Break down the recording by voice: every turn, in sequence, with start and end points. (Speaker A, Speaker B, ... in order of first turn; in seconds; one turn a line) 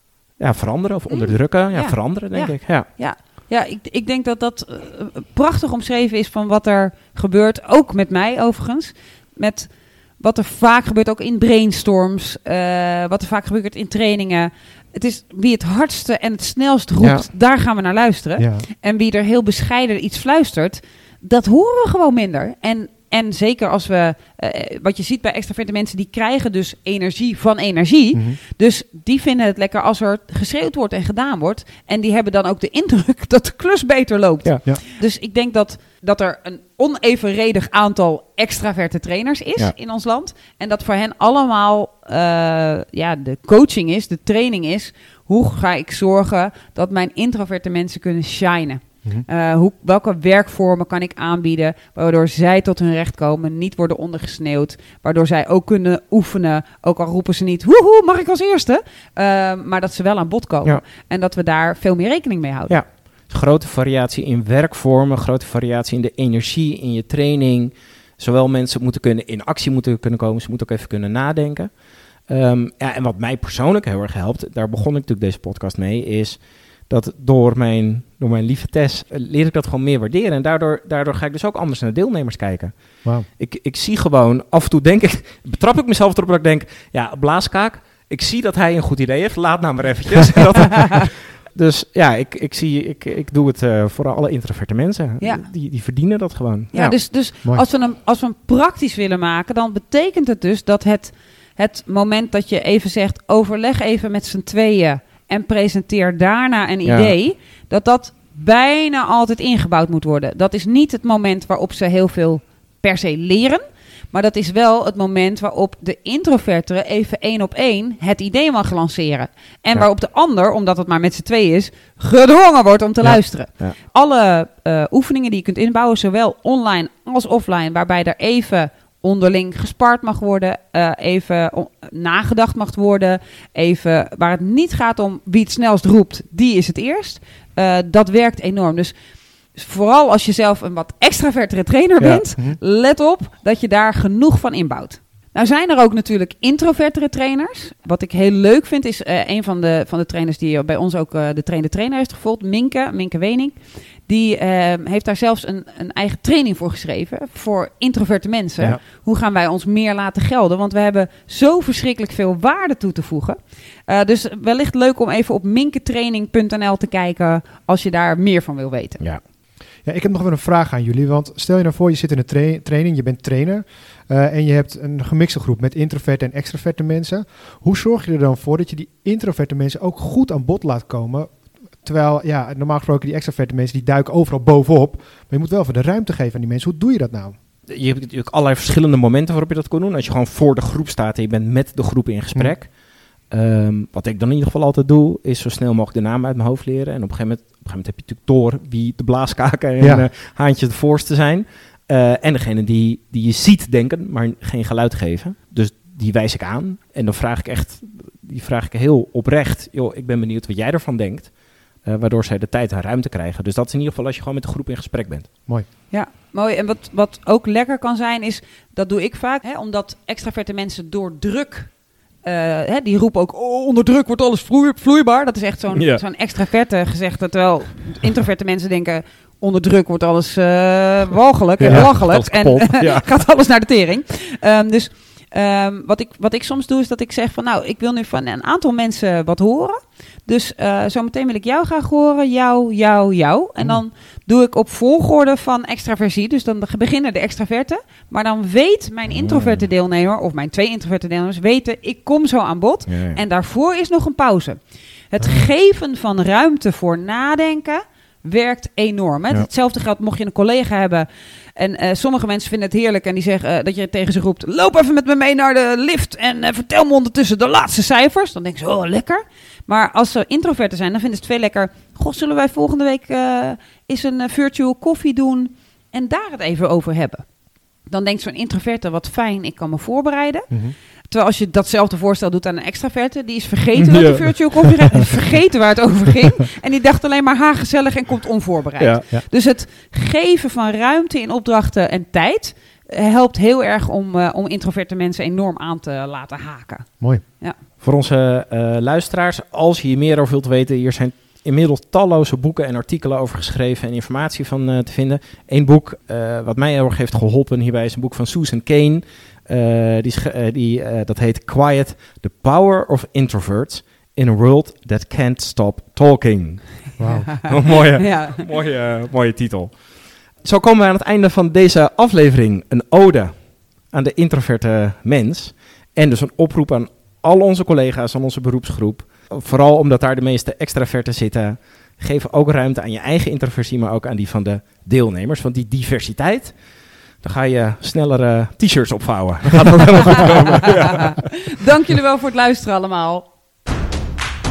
Speaker A: 0.4-2.9
Speaker B: 1.1-62.8
Speaker A: 17.0-17.3
Speaker C: 18.4-18.7
Speaker C: 28.1-28.4
Speaker A: 62.7-97.0
Speaker B: 95.2-95.5
Speaker B: 96.7-139.0
Speaker A: 106.8-107.1
Speaker A: 123.0-123.8
Speaker B: 139.5-169.0
Speaker C: 169.8-187.4
Speaker A: 187.7-192.7
Speaker A: 193.3-215.3
Speaker C: 199.8-200.1
Speaker B: 215.9-254.6
Speaker A: 225.7-226.0
Speaker A: 231.6-233.1
Speaker C: 231.6-231.9
Speaker A: 249.2-249.6
Speaker A: 252.9-253.2
Speaker B: 255.1-277.3
Speaker B: 277.9-280.5
Speaker C: 280.5-280.8
Speaker B: 281.1-297.6
Speaker A: 283.8-285.1
Speaker A: 288.8-289.1
Speaker A: 297.8-319.9
Speaker C: 317.0-317.3
Speaker B: 317.1-318.4
Speaker A: 320.4-336.6
Speaker A: 337.2-341.3
Speaker B: 340.6-343.3